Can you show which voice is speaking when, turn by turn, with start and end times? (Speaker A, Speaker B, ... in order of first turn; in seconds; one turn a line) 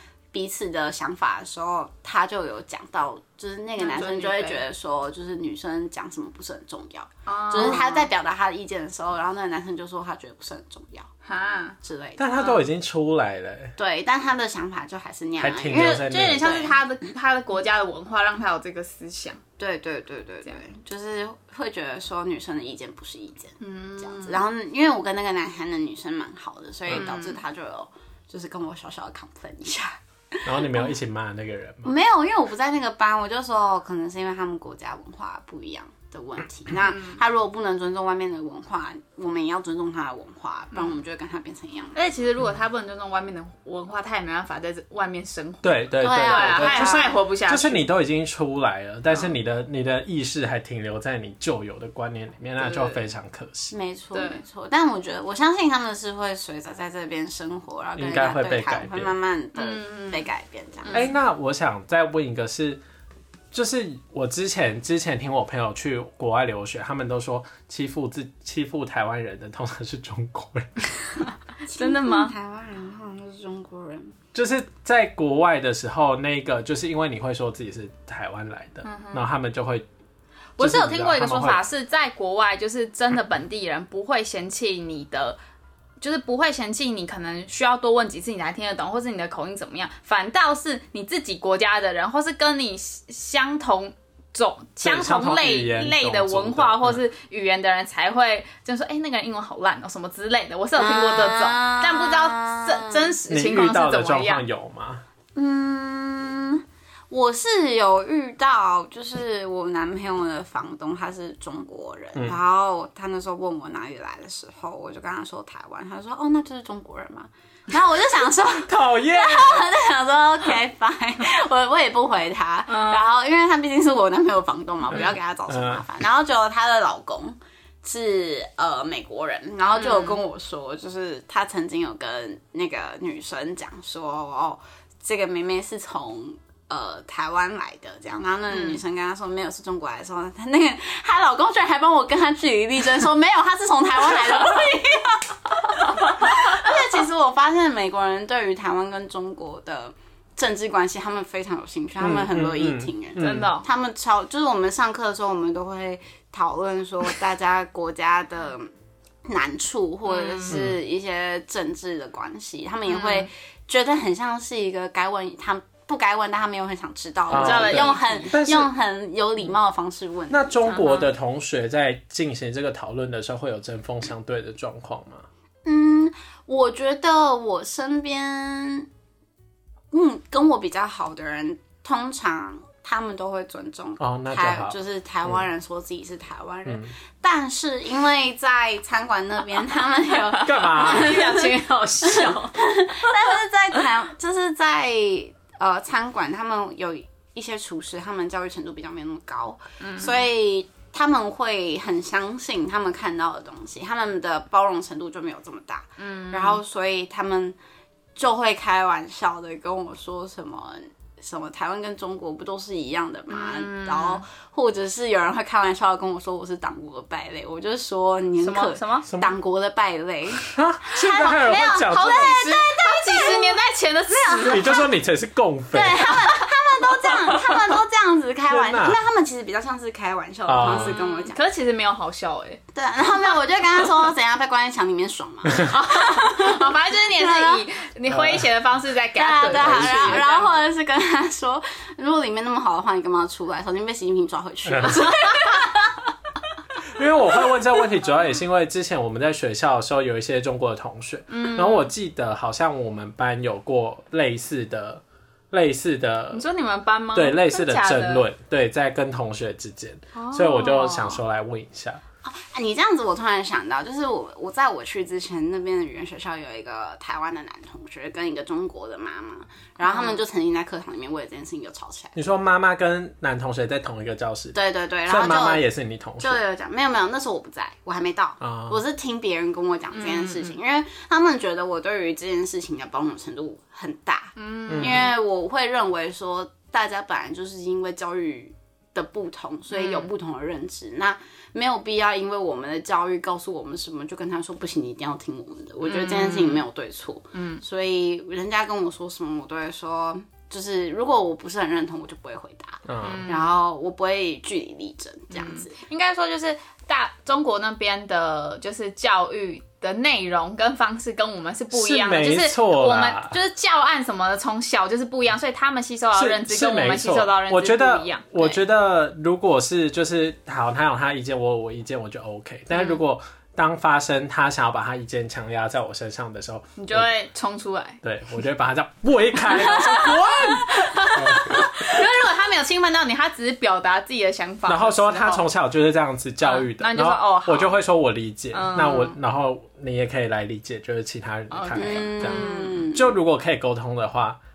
Speaker A: 0.3-11.1
Speaker B: 3.8-4.6
Speaker B: 7.3-8.1
Speaker B: 11.2-11.8
Speaker A: 11.8-12.5
Speaker C: 12.2-13.8
Speaker B: 12.4-12.6
Speaker A: 13.8-16.8
Speaker C: 15.4-16.5
Speaker B: 15.7-19.4
Speaker A: 19.6-30.9
Speaker B: 23.6-24.4
Speaker B: 26.9-27.4
Speaker C: 30.4-31.9
Speaker A: 31.9-42.0
Speaker B: 36.9-37.2
Speaker B: 42.0-47.9
Speaker C: 45.6-53.8
Speaker A: 46.0-47.1
Speaker B: 52.6-53.0
Speaker A: 53.7-61.0
Speaker B: 54.1-54.4
Speaker C: 58.0-59.1
Speaker B: 59.5-60.3
Speaker B: 60.9-61.1
Speaker C: 60.9-62.8
Speaker C: 63.5-70.9
Speaker A: 71.7-74.2
Speaker B: 71.7-72.3
Speaker C: 74.3-79.9
Speaker B: 78.8-79.2
Speaker B: 80.6-85.4
Speaker C: 80.6-81.6
Speaker B: 86.0-104.4
Speaker C: 94.8-97.0
Speaker A: 100.8-103.1
Speaker C: 103.3-105.0
Speaker A: 105.4-158.7
Speaker C: 112.2-112.4
Speaker C: 118.7-119.7
Speaker B: 122.7-123.1
Speaker C: 125.5-125.8
Speaker B: 129.8-130.2
Speaker B: 138.5-138.8
Speaker C: 152.0-153.5
Speaker B: 153.2-153.7
Speaker A: 159.3-170.6
Speaker B: 160.1-160.6
Speaker C: 160.5-160.8
Speaker B: 162.9-163.3
Speaker B: 167.3-168.3
Speaker C: 167.3-168.7
Speaker C: 170.3-175.3
Speaker B: 170.7-171.1
Speaker A: 175.7-178.9
Speaker A: 179.9-207.6
Speaker C: 184.0-185.4
Speaker C: 186.7-186.9
Speaker B: 190.4-193.3
Speaker C: 190.4-191.2
Speaker B: 199.8-200.2
Speaker B: 206.0-206.6
Speaker A: 208.2-223.6
Speaker B: 213.3-214.2
Speaker B: 218.4-219.1
Speaker C: 219.1-219.3
Speaker C: 220.4-222.5
Speaker B: 221.2-224.9
Speaker A: 224.1-224.8
Speaker C: 224.5-226.2
Speaker A: 225.7-231.4
Speaker B: 227.3-227.7
Speaker C: 228.5-229.0
Speaker C: 230.5-231.0
Speaker B: 230.6-232.6
Speaker A: 232.7-237.7
Speaker B: 235.6-240.6
Speaker C: 238.1-238.5
Speaker A: 239.2-246.0
Speaker C: 239.5-240.3
Speaker C: 244.7-245.1
Speaker C: 246.9-256.4
Speaker B: 251.3-251.9
Speaker B: 256.3-258.2
Speaker C: 257.1-262.0
Speaker B: 260.1-261.2
Speaker A: 262.2-272.2
Speaker B: 269.8-270.2
Speaker C: 272.2-276.4
Speaker A: 274.6-275.6
Speaker A: 276.2-305.8
Speaker C: 278.4-278.8
Speaker B: 279.9-280.6
Speaker B: 284.4-285.1
Speaker C: 284.7-285.1
Speaker B: 289.7-290.1
Speaker B: 295.8-296.6
Speaker B: 297.3-297.6
Speaker C: 302.9-303.3
Speaker B: 303.0-303.5
Speaker B: 305.3-318.6
Speaker C: 311.7-313.4
Speaker C: 316.1-327.1
Speaker B: 326.8-328.0
Speaker C: 328.0-332.0
Speaker B: 329.4-335.4
Speaker C: 334.7-344.4
Speaker B: 336.4-337.8
Speaker B: 338.5-339.2
Speaker B: 341.5-342.9
Speaker A: 341.8-343.1